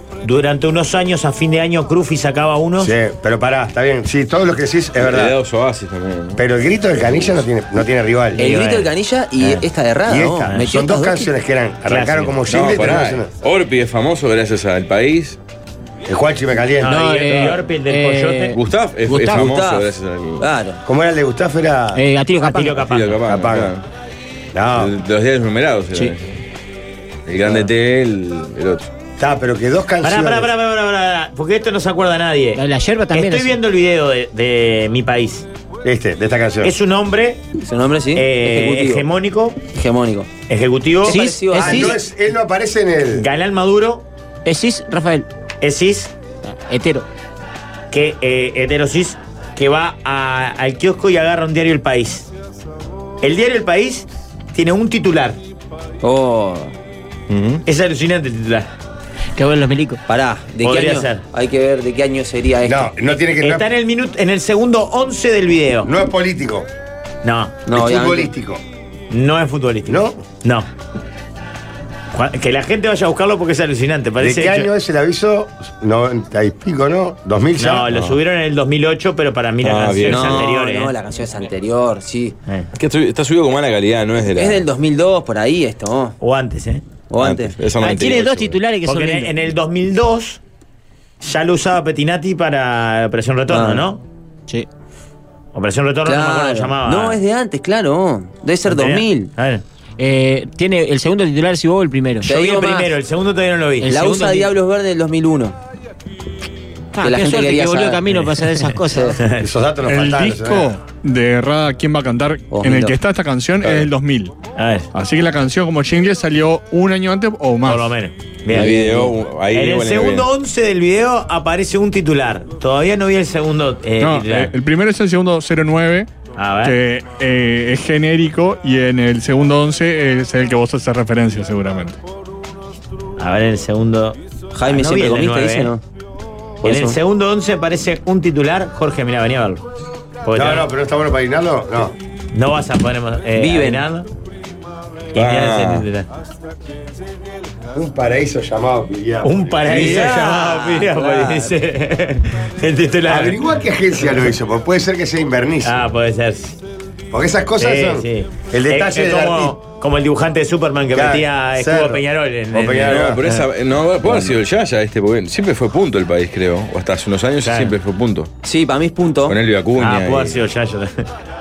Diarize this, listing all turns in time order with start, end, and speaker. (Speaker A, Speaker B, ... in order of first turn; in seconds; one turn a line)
Speaker A: 0.2-2.9
Speaker B: 2.8-5.3
Speaker C: 5.0-6.4
Speaker B: 6.4-8.4
Speaker A: 8.3-9.6
Speaker D: 8.4-11.3
Speaker B: 10.1-13.3
Speaker A: 10.5-10.8
Speaker A: 11.8-12.5
Speaker C: 12.5-15.4
Speaker B: 16.1-17.0
Speaker A: 16.8-18.6
Speaker E: 16.8-19.5
Speaker C: 18.5-20.5
Speaker D: 19.2-20.8
Speaker B: 20.8-22.0
Speaker E: 21.9-22.8
Speaker A: 22.4-23.2
Speaker C: 22.8-23.8
Speaker B: 23.3-23.7
Speaker B: 24.5-24.9
Speaker C: 24.8-26.3
Speaker C: 27.2-28.9
Speaker B: 29.2-30.5
Speaker A: 30.0-35.5
Speaker E: 32.5-33.5
Speaker B: 35.8-36.7
Speaker A: 36.6-37.4
Speaker D: 37.6-39.0
Speaker A: 38.1-39.6
Speaker D: 39.7-40.3
Speaker A: 40.5-41.2
Speaker D: 41.0-42.0
Speaker E: 41.0-42.0
Speaker B: 41.5-43.2
Speaker A: 43.1-44.0
Speaker E: 44.5-45.3
Speaker A: 45.6-46.1
Speaker E: 46.5-47.0
Speaker A: 47.9-52.3
Speaker A: 53.2-55.4
Speaker D: 56.0-56.7
Speaker C: 57.3-57.6
Speaker A: 57.6-58.7
Speaker E: 59.4-60.0
Speaker D: 60.1-62.9
Speaker A: 60.6-61.2
Speaker B: 62.6-63.7
Speaker A: 63.4-65.9
Speaker B: 65.8-66.7
Speaker A: 67.2-67.6
Speaker D: 67.7-68.3
Speaker B: 67.7-68.6
Speaker A: 69.1-70.7
Speaker B: 69.9-70.2
Speaker A: 72.1-74.7
Speaker B: 74.2-77.9
Speaker A: 77.6-80.9
Speaker C: 79.6-80.4
Speaker D: 80.1-82.4
Speaker C: 82.8-84.6
Speaker D: 84.3-86.2
Speaker A: 86.2-86.8
Speaker D: 87.1-87.6
Speaker C: 87.2-88.6
Speaker E: 87.8-89.3
Speaker A: 88.8-90.4
Speaker A: 91.2-94.0
Speaker D: 93.5-93.8
Speaker A: 95.5-97.2
Speaker D: 96.0-99.3
Speaker A: 98.6-99.6
Speaker E: 100.0-102.3
Speaker A: 102.2-104.0
Speaker D: 102.2-102.9
Speaker E: 103.8-104.5
Speaker D: 103.8-105.5
Speaker E: 106.9-109.2
Speaker D: 107.0-108.0
Speaker D: 108.9-109.2
Speaker A: 109.2-109.5
Speaker B: 109.4-110.8
Speaker F: 109.8-114.3
Speaker D: 112.5-113.0
Speaker C: 113.6-113.9
Speaker A: 114.5-114.9
Speaker F: 114.9-117.9
Speaker A: 117.6-118.9
Speaker C: 118.5-120.3
Speaker E: 118.5-119.1
Speaker A: 119.5-124.5
Speaker F: 124.0-126.1
Speaker A: 126.3-126.8
Speaker F: 126.6-132.0
Speaker A: 133.2-135.7
Speaker D: 134.5-135.8
Speaker D: 136.6-137.0
Speaker A: 136.6-139.6
Speaker A: 140.2-140.7
Speaker B: 140.3-141.9
Speaker A: 142.3-144.1
Speaker D: 143.4-143.8
Speaker A: 145.1-146.1
Speaker C: 145.2-145.8
Speaker B: 147.7-150.2
Speaker A: 149.2-153.4
Speaker D: 149.7-151.5
Speaker B: 153.1-155.8
Speaker A: 155.6-156.6
Speaker B: 157.1-159.5
Speaker A: 157.6-163.3
Speaker B: 160.9-163.2
Speaker C: 162.8-168.3
Speaker D: 164.1-164.3
Speaker A: 167.4-167.7
Speaker D: 168.4-169.4
Speaker C: 169.3-170.4
Speaker A: 169.8-171.1